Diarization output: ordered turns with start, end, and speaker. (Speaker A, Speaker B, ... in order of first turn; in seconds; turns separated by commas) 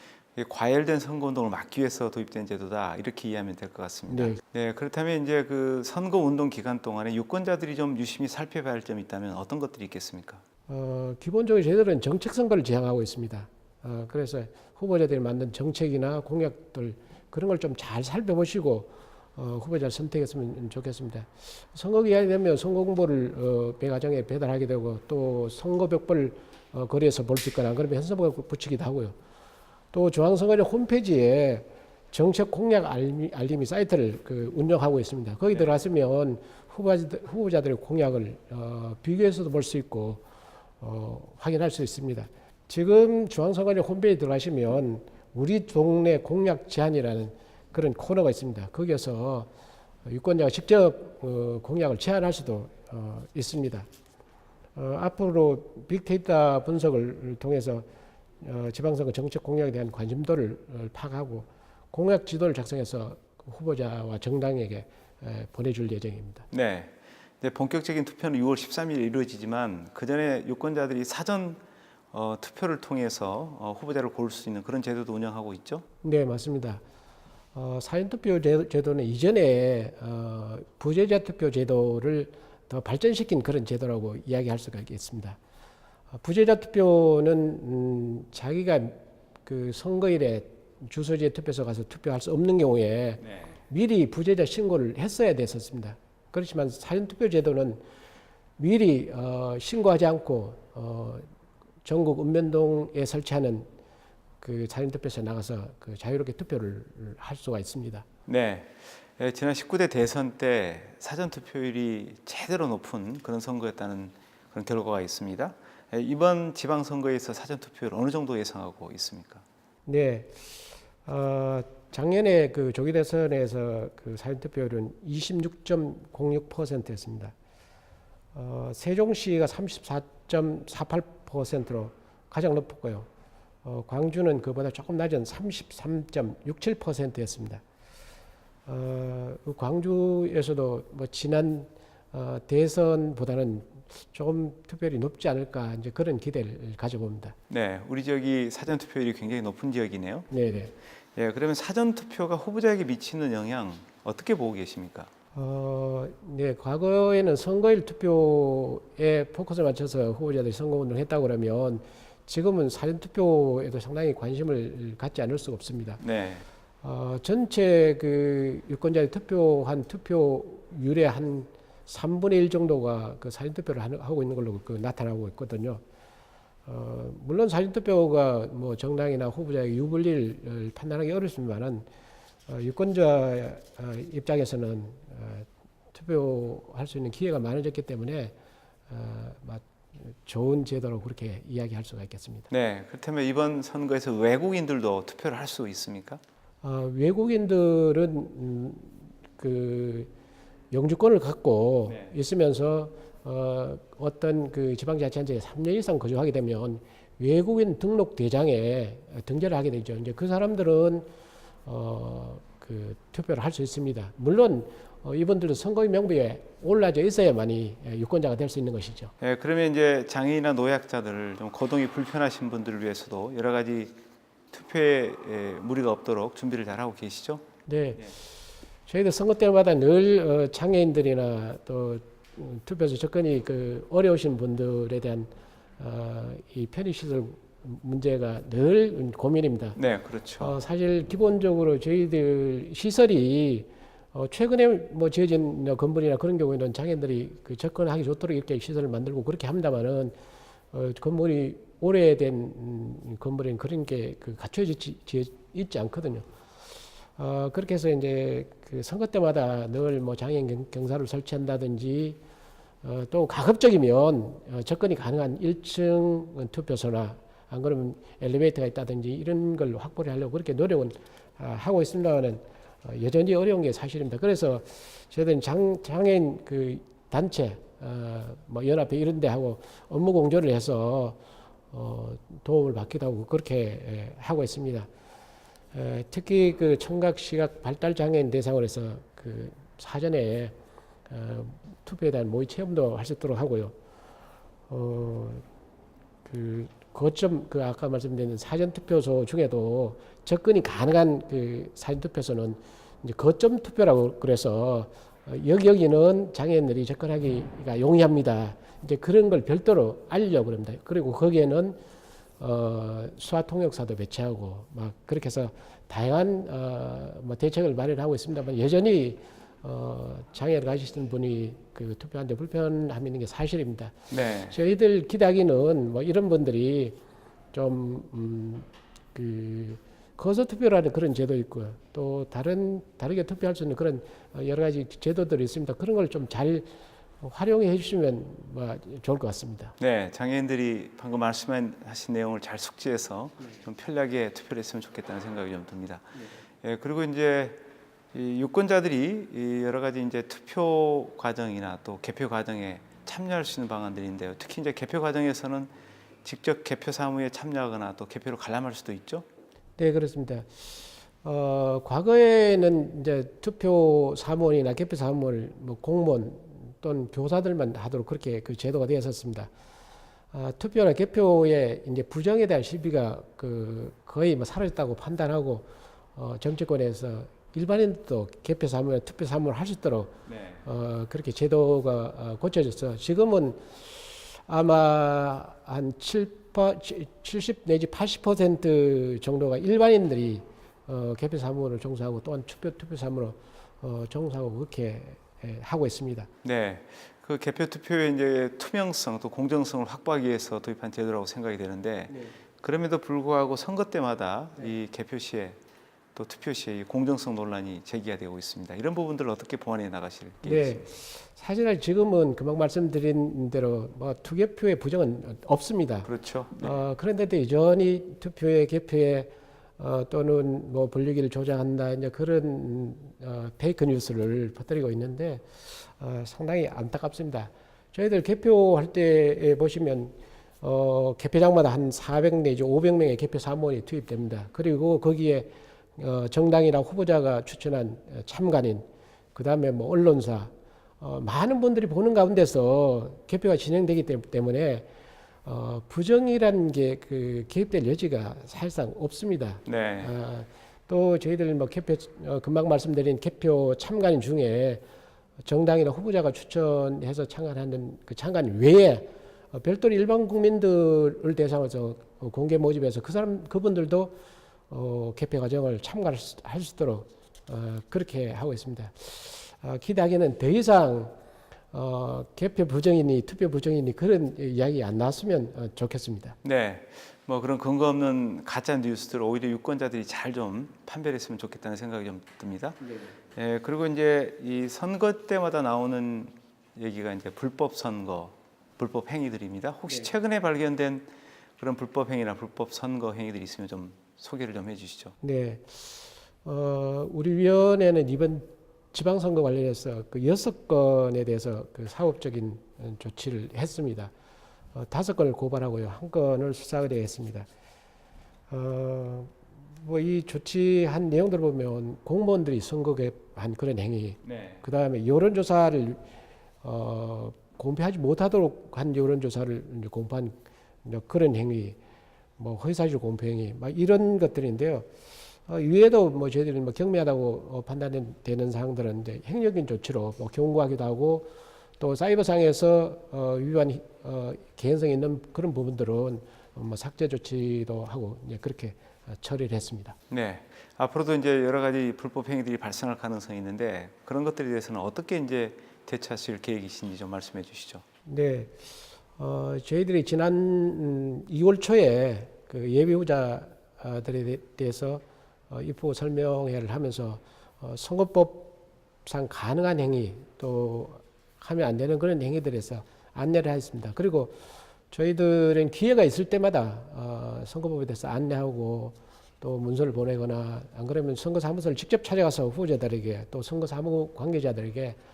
Speaker A: 0.3-10.4, Speaker B: 4.1-4.4, Speaker B: 10.7-29.1, Speaker B: 29.9-40.2, Speaker B: 40.8-49.5, Speaker B: 50.0-53.9, Speaker B: 54.8-57.9, Speaker B: 58.4-66.5, Speaker A: 66.5-71.6, Speaker A: 72.1-75.8, Speaker B: 76.0-76.8, Speaker B: 77.5-85.4, Speaker B: 86.1-97.8, Speaker B: 98.6-101.3, Speaker B: 101.8-103.7, Speaker B: 104.4-108.0, Speaker A: 108.3-119.4, Speaker B: 119.9-127.3, Speaker B: 128.3-133.1, Speaker B: 133.6-137.6, Speaker B: 138.7-147.3, Speaker A: 147.5-150.3, Speaker B: 150.3-150.7, Speaker A: 151.1-155.1, Speaker B: 155.3-166.0, Speaker A: 166.0-166.4, Speaker B: 166.8-175.8, Speaker B: 176.7-181.8, Speaker B: 182.5-188.3, Speaker B: 188.9-192.5, Speaker A: 192.5-196.2, Speaker B: 196.6-200.1, Speaker B: 200.7-211.1, Speaker B: 211.7-219.1, Speaker A: 219.2-224.0, Speaker A: 224.5-227.4, Speaker B: 227.7-228.3, Speaker B: 228.9-239.8, Speaker A: 239.8-240.5, Speaker B: 240.4-250.2, Speaker B: 250.7-256.2, Speaker B: 257.1-262.2, Speaker B: 262.8-281.2, Speaker B: 281.7-284.9, Speaker B: 285.7-290.5, Speaker B: 291.1-293.7, Speaker B: 294.7-295.4, Speaker B: 296.2-311.8, Speaker B: 312.4-327.0, Speaker A: 324.1-324.6, Speaker B: 327.5-339.8, Speaker A: 339.8-355.7, Speaker A: 356.2-359.2, Speaker B: 359.8-369.5, Speaker B: 370.3-396.3, Speaker A: 380.3-380.6, Speaker A: 396.4-405.6, Speaker A: 406.1-410.8, Speaker B: 410.4-444.9, Speaker A: 416.0-416.8, Speaker B: 445.4-454.8, Speaker A: 449.6-450.1, Speaker B: 455.4-464.1, Speaker B: 464.7-471.1, Speaker B: 471.7-476.4, Speaker A: 476.4-482.8, Speaker A: 483.3-495.1, Speaker B: 495.2-504.1, Speaker B: 504.7-507.5, Speaker B: 508.5-516.0, Speaker A: 514.2-514.6, Speaker B: 516.6-521.8, Speaker B: 522.4-524.9, Speaker B: 525.5-540.0, Speaker A: 540.1-547.8, Speaker B: 548.0-558.5, Speaker B: 559.0-564.4, Speaker B: 564.9-575.0